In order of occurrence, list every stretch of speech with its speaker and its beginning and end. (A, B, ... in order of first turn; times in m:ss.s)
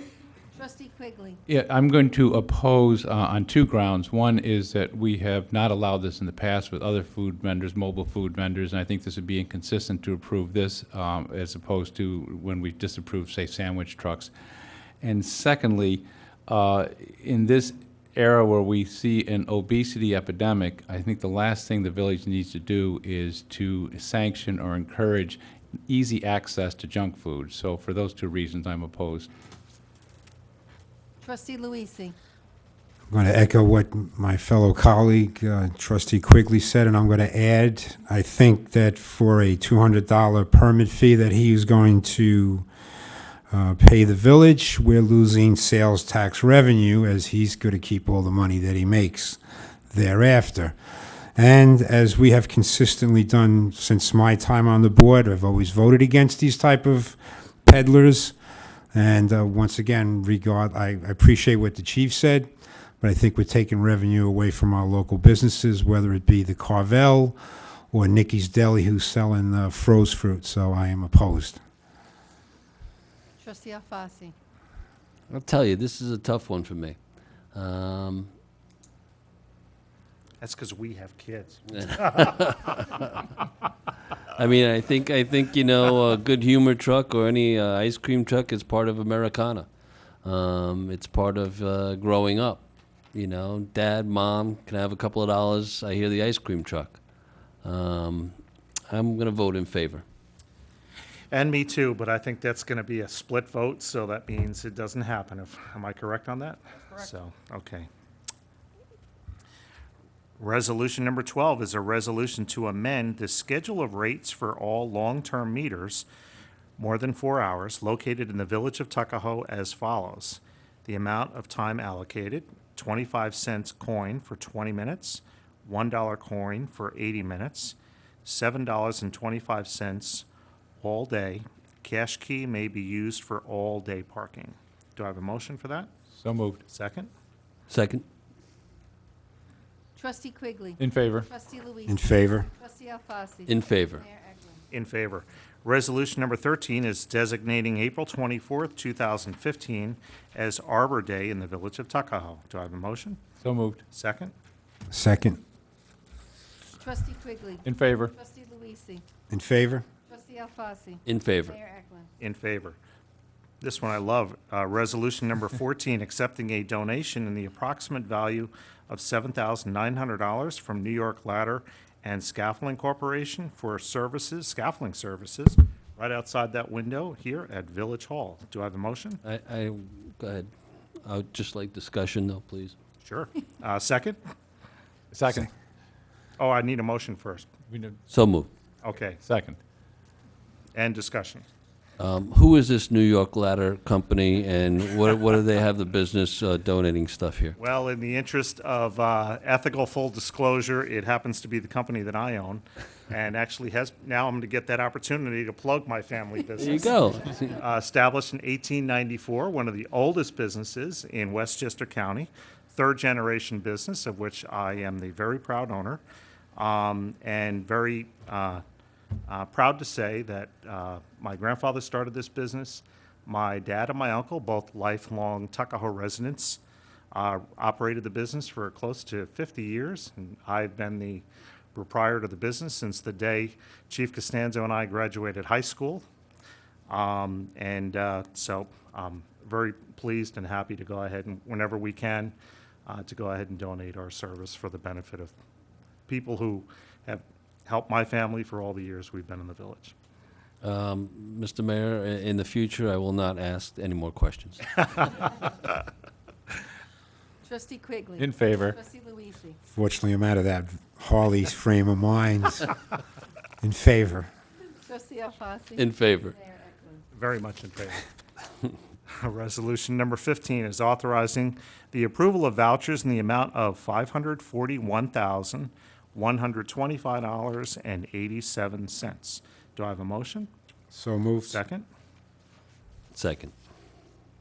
0:00.5-0:01.4 A
0:01.5-0:14.3 B
0:15.0-0:29.3 B
0:31.2-0:32.2 A
0:33.1-0:42.7 C
0:43.5-0:50.8 C
0:51.4-0:58.4 C
0:58.9-1:02.5 C
1:03.0-1:07.4 C
1:07.9-1:11.6 C
1:13.4-1:14.4 A
1:15.3-1:17.0 D
1:17.5-1:18.3 D
1:20.4-1:22.3 E
1:21.8-1:23.0 D
1:24.3-1:29.7 D
1:30.2-1:37.0 D
1:37.6-1:38.4 D
1:38.9-1:40.0 D
1:41.3-1:47.9 E
1:50.4-1:56.1 E
1:56.8-2:10.3 E
2:10.8-2:15.9 E
2:16.1-2:16.6 B
2:16.7-2:17.1 E
2:17.7-2:18.0 D
2:20.0-2:24.6 A
2:20.8-2:21.3 B
2:21.9-2:22.5 C
2:23.5-2:24.0 D
2:24.7-2:33.2 E
2:33.4-2:33.8 B
2:33.9-2:34.3 E
2:34.9-2:35.4 C
2:36.8-2:39.0 A
2:37.6-2:38.1 B
2:39.3-2:39.8 C
2:40.0-2:42.1 A
2:41.1-2:41.6 D
2:42.2-2:42.8 E
2:43.6-2:59.2 E
2:59.2-3:00.5 D
3:01.0-3:02.8 D
3:03.0-3:04.2 E
3:05.1-3:05.5 B
3:06.4-3:07.5 E
3:07.7-3:08.0 B
3:08.1-3:08.5 D
3:08.8-3:09.2 E
3:09.2-3:09.6 B
3:10.7-3:11.4 E
3:12.0-3:17.6 D
3:17.6-3:36.0 E
3:26.6-3:27.5 D
3:36.6-3:38.6 E
3:39.3-3:46.6 E
3:47.1-3:56.0 E
3:56.9-4:02.4 E
4:02.9-4:05.4 E
4:06.1-4:09.9 E
4:10.6-4:15.2 D
4:17.4-4:19.6 A
4:18.2-4:18.8 B
4:19.7-4:22.7 C
4:23.6-4:24.3 C
4:24.7-4:27.0 A
4:25.8-4:26.4 D
4:27.1-4:28.0 E
4:29.1-4:40.5 E
4:40.9-4:41.6 C
4:41.5-4:41.8 E
4:43.1-4:43.5 D